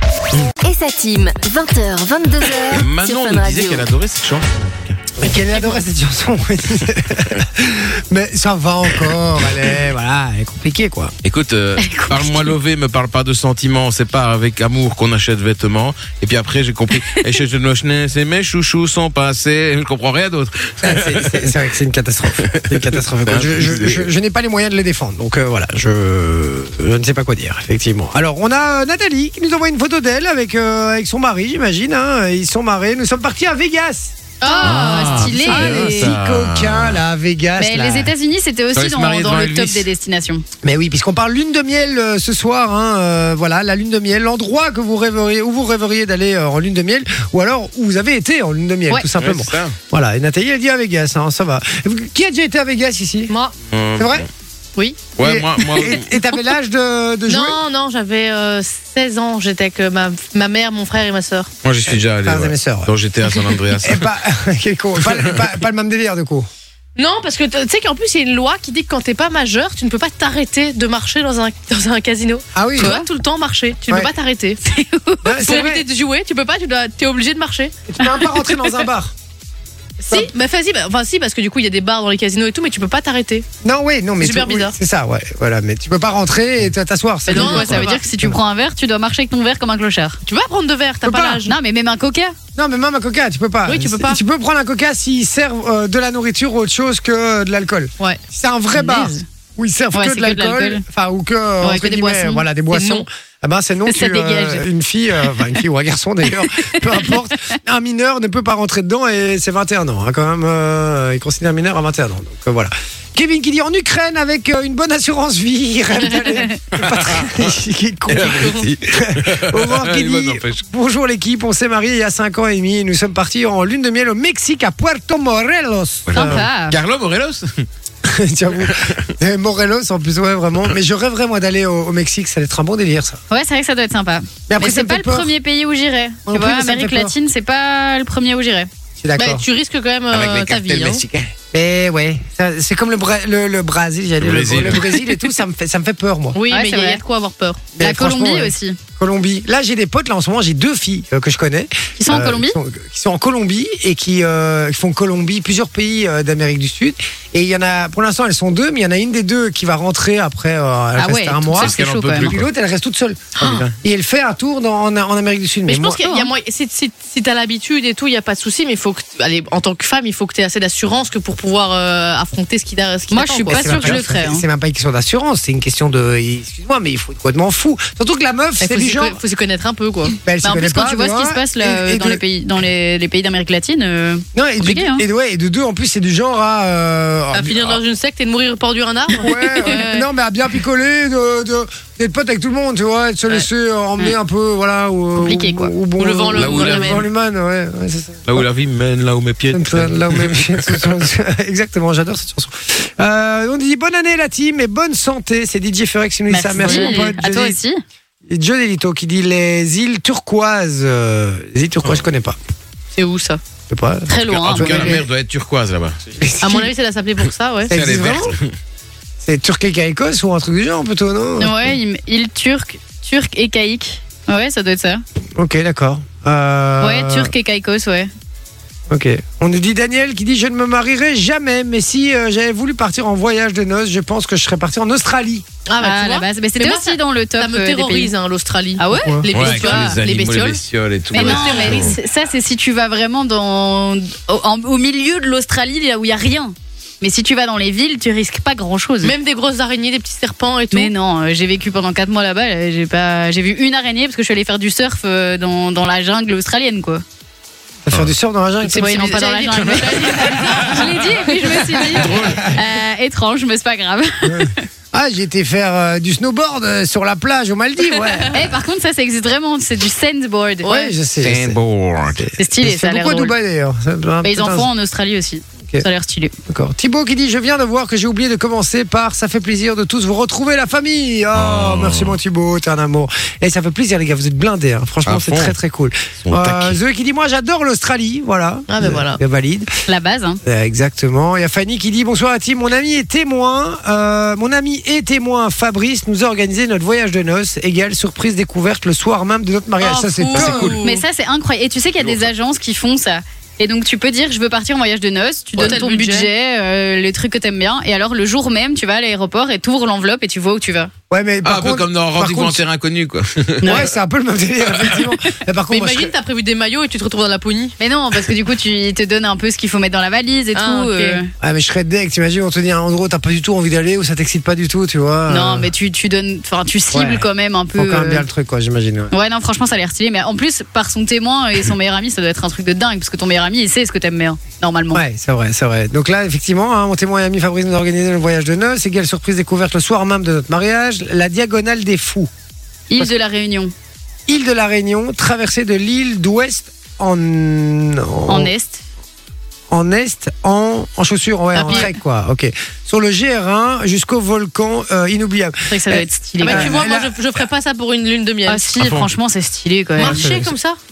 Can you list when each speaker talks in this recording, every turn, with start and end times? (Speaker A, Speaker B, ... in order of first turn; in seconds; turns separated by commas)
Speaker A: 0.6-3.9, Speaker B: 2.7-5.0, Speaker C: 5.2-11.1, Speaker B: 11.2-21.5, Speaker D: 11.8-12.5, Speaker C: 20.8-34.2, Speaker B: 22.4-24.1, Speaker E: 34.4-35.2, Speaker D: 34.4-36.2, Speaker B: 34.6-37.0, Speaker C: 34.7-38.1, Speaker D: 37.6-40.5, Speaker B: 38.7-39.9, Speaker C: 40.6-53.3, Speaker B: 49.2-49.8, Speaker E: 53.3-53.5, Speaker B: 53.7-54.3, Speaker C: 54.0-54.3, Speaker B: 55.2-56.2, Speaker C: 55.2-57.6, Speaker E: 57.3-61.5, Speaker B: 61.6-64.1, Speaker C: 61.9-62.9, Speaker C: 63.8-66.5, Speaker B: 65.0-65.4, Speaker E: 67.0-74.6, Speaker C: 72.5-73.0, Speaker D: 74.7-75.4, Speaker C: 75.2-75.8, Speaker E: 75.4-78.9, Speaker C: 77.9-79.1, Speaker E: 80.0-83.5, Speaker C: 83.6-88.4, Speaker E: 84.2-84.8, Speaker D: 87.3-90.2, Speaker E: 87.3-88.0, Speaker E: 90.2-91.5, Speaker C: 91.0-91.4, Speaker D: 91.4-92.3, Speaker C: 92.5-126.5, Speaker E: 93.7-94.2, Speaker E: 98.8-99.2, Speaker D: 99.9-100.8, Speaker D: 101.6-102.5, Speaker E: 102.7-103.1, Speaker D: 103.9-104.6, Speaker D: 106.6-107.0, Speaker B: 116.7-117.5, Speaker B: 118.1-120.6, Speaker E: 118.2-118.7, Speaker B: 126.1-127.7, Speaker D: 126.1-126.8, Speaker C: 128.0-133.2, Speaker B: 128.6-129.1, Speaker D: 133.3-138.7, Speaker C: 134.5-135.3, Speaker C: 136.3-137.2, Speaker C: 139.0-139.4, Speaker E: 139.2-141.0, Speaker B: 140.1-141.3, Speaker C: 141.5-146.4, Speaker B: 144.2-145.0, Speaker E: 146.3-147.7, Speaker D: 146.5-147.0, Speaker C: 147.8-166.0, Speaker D: 147.8-148.8, Speaker D: 152.0-152.6, Speaker D: 161.0-162.4, Speaker B: 161.5-162.5, Speaker E: 163.4-163.7, Speaker E: 165.7-174.0, Speaker D: 166.0-166.3, Speaker D: 173.1-174.5, Speaker C: 173.5-179.2, Speaker E: 178.6-180.2, Speaker C: 180.2-182.2, Speaker D: 180.4-185.1, Speaker C: 184.3-187.8, Speaker E: 187.3-190.1, Speaker C: 189.1-198.5, Speaker D: 195.2-195.7, Speaker E: 196.0-197.1, Speaker B: 196.3-197.0, Speaker B: 198.3-201.0, Speaker C: 199.5-207.6, Speaker D: 206.3-207.8, Speaker E: 206.6-207.0, Speaker C: 208.3-212.4, Speaker E: 212.9-213.4, Speaker C: 213.7-215.1, Speaker D: 214.1-215.0, Speaker B: 214.2-216.2, Speaker C: 216.2-216.7, Speaker E: 216.4-217.8, Speaker C: 217.7-218.4, Speaker B: 217.7-218.5, Speaker C: 219.2-221.8, Speaker D: 221.4-225.0, Speaker C: 225.4-227.3, Speaker D: 226.8-228.1, Speaker C: 228.9-235.5, Speaker E: 235.7-240.0, Speaker D: 235.8-238.1, Speaker D: 238.8-249.1, Speaker C: 238.9-239.3, Speaker B: 239.3-242.0, Speaker E: 241.1-242.0, Speaker E: 249.0-250.9, Speaker D: 250.7-257.0, Speaker C: 257.8-260.0, Speaker E: 258.6-262.0, Speaker D: 258.8-264.6, Speaker C: 261.8-262.6, Speaker B: 262.0-262.5, Speaker C: 264.2-268.6, Speaker E: 268.0-268.3, Speaker D: 268.3-270.9, Speaker C: 270.6-271.6, Speaker B: 271.2-272.3, Speaker C: 272.1-274.7, Speaker D: 272.4-273.3, Speaker D: 274.2-276.3, Speaker C: 276.5-289.7, Speaker B: 281.3-282.2, Speaker B: 285.1-285.6, Speaker B: 286.2-286.8, Speaker E: 288.7-289.2, Speaker D: 289.9-290.4, Speaker C: 290.4-300.8, Speaker E: 299.8-301.0, Speaker B: 300.3-300.8, Speaker D: 300.8-310.9, Speaker B: 302.0-302.3, Speaker E: 305.6-306.3, Speaker C: 311.1-312.6, Speaker B: 311.4-313.8, Speaker C: 313.6-316.1, Speaker E: 315.7-317.8, Speaker D: 317.8-321.3, Speaker E: 320.6-321.2, Speaker C: 321.4-325.7, Speaker D: 325.3-328.3, Speaker C: 326.9-329.1, Speaker D: 329.1-335.0, Speaker C: 334.9-342.3, Speaker D: 342.9-343.7, Speaker C: 344.3-348.5, Speaker D: 348.3-348.8, Speaker C: 349.7-357.2, Speaker D: 351.5-351.9, Speaker E: 351.6-351.9, Speaker D: 355.7-356.9, Speaker E: 356.4-358.8, Speaker D: 358.5-360.2, Speaker B: 358.8-359.1, Speaker E: 360.0-360.8, Speaker C: 360.0-360.6